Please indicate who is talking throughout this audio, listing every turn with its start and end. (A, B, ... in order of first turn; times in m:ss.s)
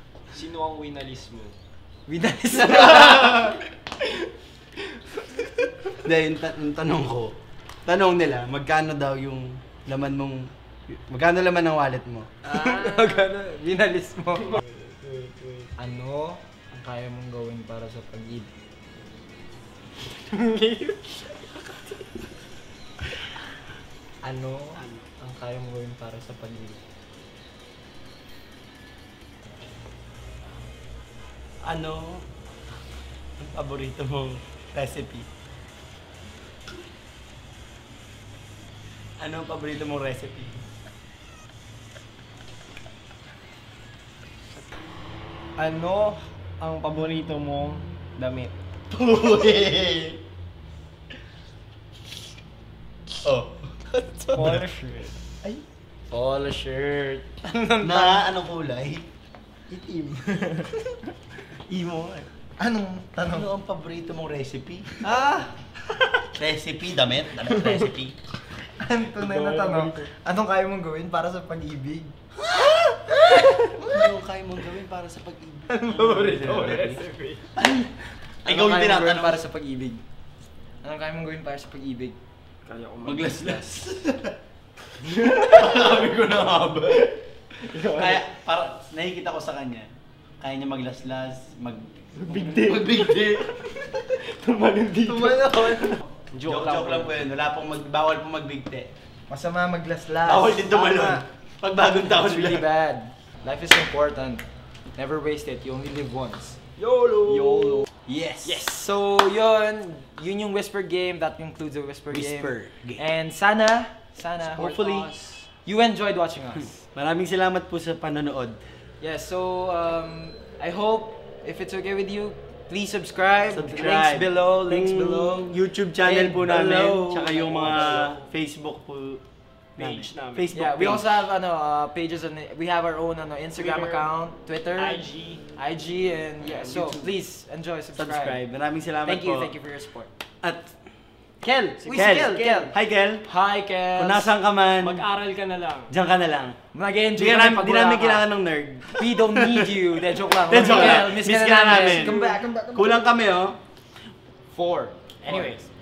0:00.3-0:01.6 A
0:02.1-0:03.6 B
0:06.0-0:12.4 C
0:12.4-0:14.6 B
0:14.7-0:15.4 A
0:15.8-0:18.5 B
0:20.1-0:21.5 B
0:24.2-0:26.8 B
0:31.6-0:32.3 C
0:33.4-0:35.3 C
0:39.2-0:40.6 C
0:45.6-0:48.5 A
0:48.9-0:50.2 C
0:53.2-0:53.7 C
0:53.9-0:54.4 B
0:54.3-0:55.2 A
0:56.1-0:58.3 B
0:57.8-0:59.1 C
0:59.7-1:00.8 A
1:01.7-1:02.3 A
1:02.6-1:03.5 B
1:03.2-1:05.0 C
1:05.0-1:05.7 B
1:06.3-1:08.2 C
1:08.6-1:12.2 B
1:09.2-1:10.1 A
1:12.5-1:13.2 C
1:13.3-1:14.1 B
1:13.8-1:17.0 C
1:15.7-1:17.0 B
1:16.7-1:17.5 A
1:17.6-1:19.4 C
1:18.4-1:20.0 B
1:20.8-1:22.2 B
1:22.7-1:23.7 A
1:23.0-1:24.4 C
1:25.1-1:25.6 A
1:25.2-1:29.9 C
1:27.6-1:28.2 A
1:30.4-1:33.6 C
1:32.2-1:37.2 A
1:35.1-1:36.0 B
1:36.5-1:38.9 C
1:39.3-1:41.2 B
1:40.2-1:42.6 C
1:42.1-1:46.6 B
1:46.8-1:48.5 C
1:47.2-1:47.9 A
1:48.2-1:55.1 B
1:52.1-1:53.0 C
1:54.6-1:55.5 A
1:55.6-1:56.8 B
1:56.9-1:58.6 C
1:59.0-2:08.2 B
2:03.5-2:09.2 C
2:09.8-2:10.5 A
2:09.8-2:11.3 C
2:10.5-2:15.0 B
2:13.6-2:14.1 A
2:14.8-2:15.4 A
2:15.6-2:18.4 B
2:16.5-2:17.1 C
2:18.0-2:19.5 C
2:19.0-2:20.1 B
2:20.4-2:20.8 C
2:21.4-2:22.7 B
2:21.8-2:22.7 A
2:21.9-2:23.3 C
2:23.2-2:24.3 B
2:24.0-2:25.0 C
2:24.8-2:25.9 A
2:25.9-2:26.6 C
2:26.7-2:28.3 B
2:27.2-2:29.7 C
2:29.0-2:33.1 B
2:30.3-2:33.6 C
2:31.7-2:32.2 A
2:34.5-2:35.6 B
2:35.2-2:35.7 A